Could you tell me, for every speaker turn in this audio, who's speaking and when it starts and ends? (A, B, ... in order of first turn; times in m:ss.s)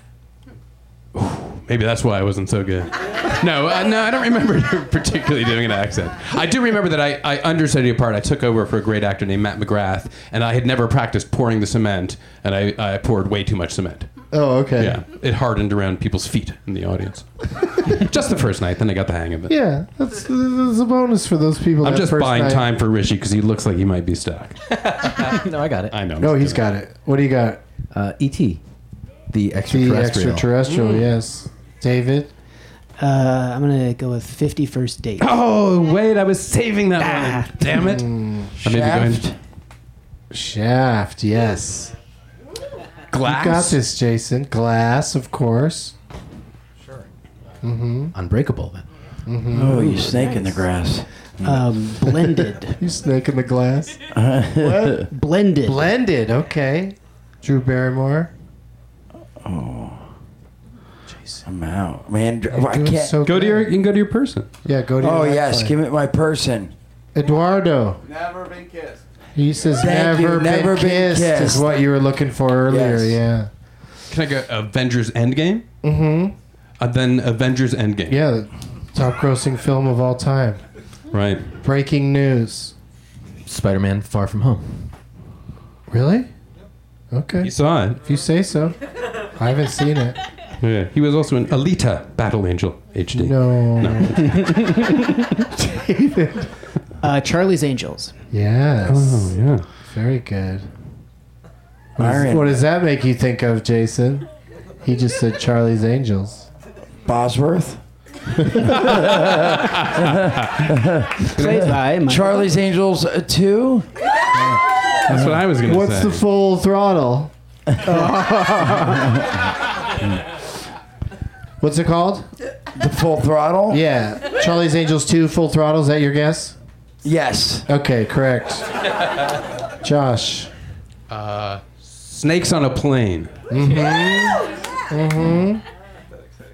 0:01.2-0:14.1 A
0:14.3-0:15.0 B
0:14.8-0:17.3 A
0:17.8-0:19.5 A
0:19.5-0:22.7 B
0:21.8-0:25.3 A
0:24.8-0:26.0 C
0:25.9-0:26.6 A
0:26.2-0:27.6 B
0:27.9-0:28.6 C
0:29.3-0:30.5 C
0:29.7-0:32.3 B
0:30.7-0:31.1 A
0:33.0-0:35.3 D
0:35.2-0:39.3 A
0:37.0-0:37.7 D
0:37.7-0:38.5 B
0:38.6-0:39.4 E
0:40.3-0:41.9 B
0:43.1-0:43.8 A
0:43.1-0:45.9 B
0:47.6-0:48.2 B
0:48.1-0:48.9 C
0:49.3-0:50.0 B
0:49.5-0:51.6 E
0:49.8-0:50.6 D
0:51.4-0:52.8 D
0:52.7-0:54.0 B
0:54.1-0:55.1 E
0:54.6-0:55.1 B
0:55.1-0:55.9 D
0:55.6-0:58.3 B
0:59.4-1:00.0 E
1:01.1-1:01.4 B
1:01.5-1:03.2 E
1:02.5-1:03.8 B
1:03.2-1:04.5 A
1:04.6-1:05.8 B
1:05.0-1:06.7 E
1:07.1-1:08.0 B
1:09.4-1:13.5 B
1:09.8-1:11.8 E
1:12.7-1:13.2 E
1:14.1-1:15.6 A
1:15.8-1:16.4 B
1:16.8-1:18.2 A
1:18.1-1:20.6 B
1:21.1-1:21.5 A
1:21.6-1:22.8 B
1:23.5-1:24.9 C
1:25.9-1:26.3 B
1:27.1-1:27.5 B
1:27.4-1:28.0 A
1:28.0-1:28.8 B
1:29.4-1:30.2 B
1:30.6-1:34.7 A
1:33.2-1:34.9 B
1:34.3-1:34.9 D
1:35.4-1:36.5 B
1:37.0-1:38.2 D
1:38.3-1:40.7 B
1:38.9-1:39.7 A
1:42.0-1:44.3 B
1:42.0-1:42.6 E
1:44.8-1:46.5 B
1:47.1-1:47.8 E
1:48.3-1:48.9 B
1:48.7-1:50.6 A
1:48.8-1:51.5 E
1:51.2-1:52.5 D
1:51.4-1:51.7 A
1:52.1-1:53.9 E
1:55.1-1:57.3 B
1:55.1-1:56.2 A
1:57.8-1:59.1 D
1:59.0-1:59.3 E
2:01.6-2:02.3 B
2:02.8-2:03.8 E
2:03.7-2:06.6 B
2:07.0-2:07.7 E
2:07.7-2:08.7 B
2:09.8-2:10.5 B
2:11.1-2:13.3 A
2:13.5-2:15.6 B